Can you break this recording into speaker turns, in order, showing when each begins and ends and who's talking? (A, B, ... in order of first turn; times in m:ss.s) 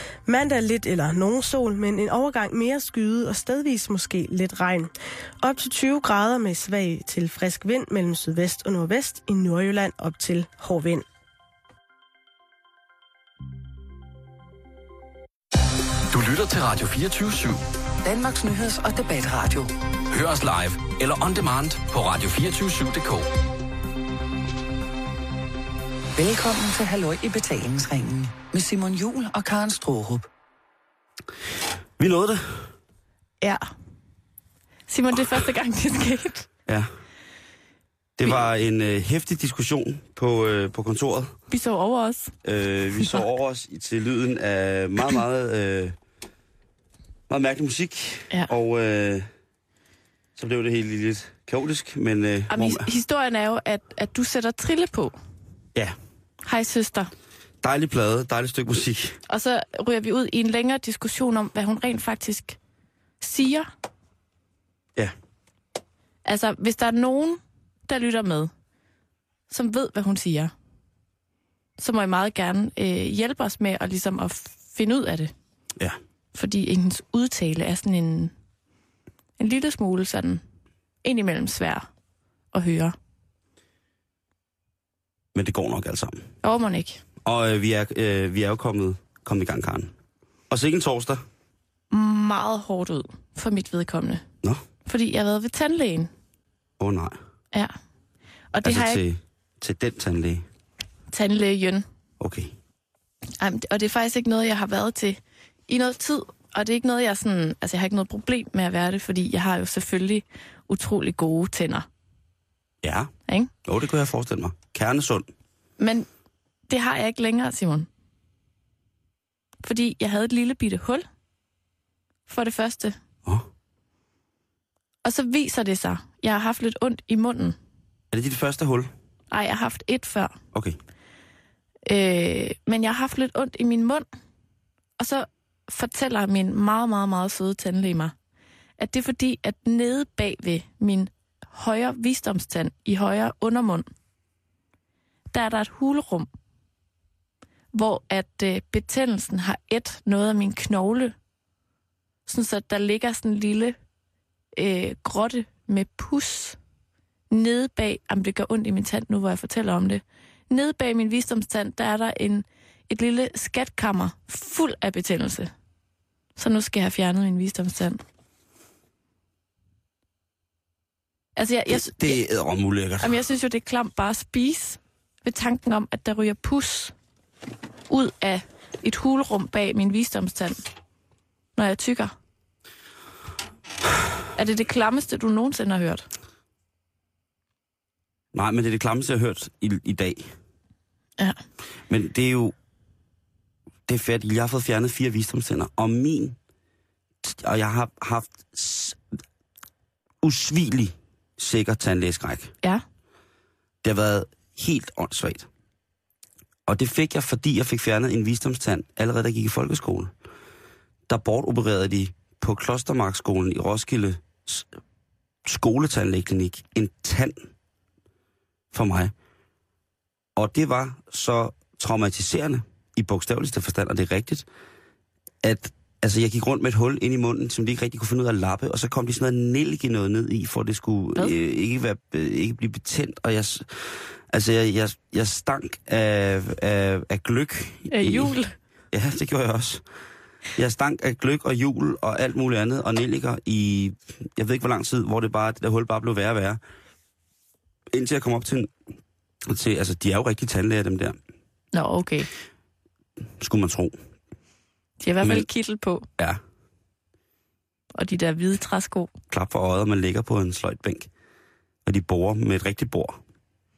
0:00.2-0:11.0 A
0:16.1-0:17.6 B
0:18.0-0:19.7 C
0:20.1-0:23.3 B
0:26.2-0:30.2 C
0:32.0-0:32.6 D
0:34.9-0:36.5 E
0:38.2-0:41.4 D
0:41.5-0:42.3 E
0:42.4-0:46.0 D
0:47.3-0:49.2 D
0:50.4-0:52.9 D
0:52.5-0:55.1 E
0:56.4-0:57.1 E
0:57.6-0:59.2 D
0:59.3-1:02.6 E
1:03.2-1:03.7 E
1:06.2-1:08.5 E
1:09.5-1:10.5 E
1:11.8-1:15.3 E
1:16.3-1:18.3 E
1:19.4-1:20.4 E
1:21.0-1:21.9 E
1:22.5-1:23.0 E
1:25.3-1:26.2 D
1:26.4-1:27.0 E
1:27.2-1:29.9 D
1:30.5-1:31.2 D
1:31.9-1:34.2 E
1:34.8-1:36.1 E
1:36.8-1:37.2 D
1:38.5-1:39.0 E
1:38.6-1:40.4 D
1:41.1-1:41.8 E
1:42.2-1:42.5 D
1:43.4-1:51.8 E
1:52.8-1:53.1 D
1:53.6-1:55.3 D
1:55.8-1:56.1 E
1:56.7-1:57.9 E
1:59.6-2:01.0 E
2:02.3-2:03.0 E
2:05.0-2:07.6 E
2:08.1-2:08.9 D
2:09.3-2:10.3 E
2:10.5-2:10.8 D
2:11.8-2:14.0 E
2:15.0-2:18.1 E
2:18.8-2:23.8 E
2:25.3-2:26.3 E
2:27.7-2:31.1 E
2:32.3-2:33.8 E
2:34.6-2:36.6 E
2:37.3-2:45.5 E
2:46.4-2:48.0 E
2:51.4-2:52.2 E
2:51.7-2:53.2 D
2:53.0-2:56.9 E
2:57.9-3:00.6 E
3:01.6-3:02.1 E
3:04.3-3:06.1 E
3:08.3-3:10.3 D
3:11.9-3:12.5 D
3:13.9-3:16.4 D
3:17.2-3:19.0 D
3:20.2-3:22.5 D
3:23.8-3:25.5 D
3:26.6-3:30.1 D
3:31.1-3:34.7 D
3:35.4-3:37.4 D
3:38.7-3:39.1 D
3:40.4-3:44.4 D
3:45.4-3:53.7 D
3:54.3-3:58.3 D
3:57.9-3:58.5 E
3:58.9-3:59.8 D
4:00.6-4:06.6 D
4:07.9-4:08.7 D
4:09.4-4:11.2 D
4:11.7-4:12.3 E
4:13.4-4:14.0 D
4:15.0-4:16.0 E
4:15.2-4:15.5 D
4:17.9-4:19.1 E
4:19.3-4:21.1 D
4:21.8-4:23.2 D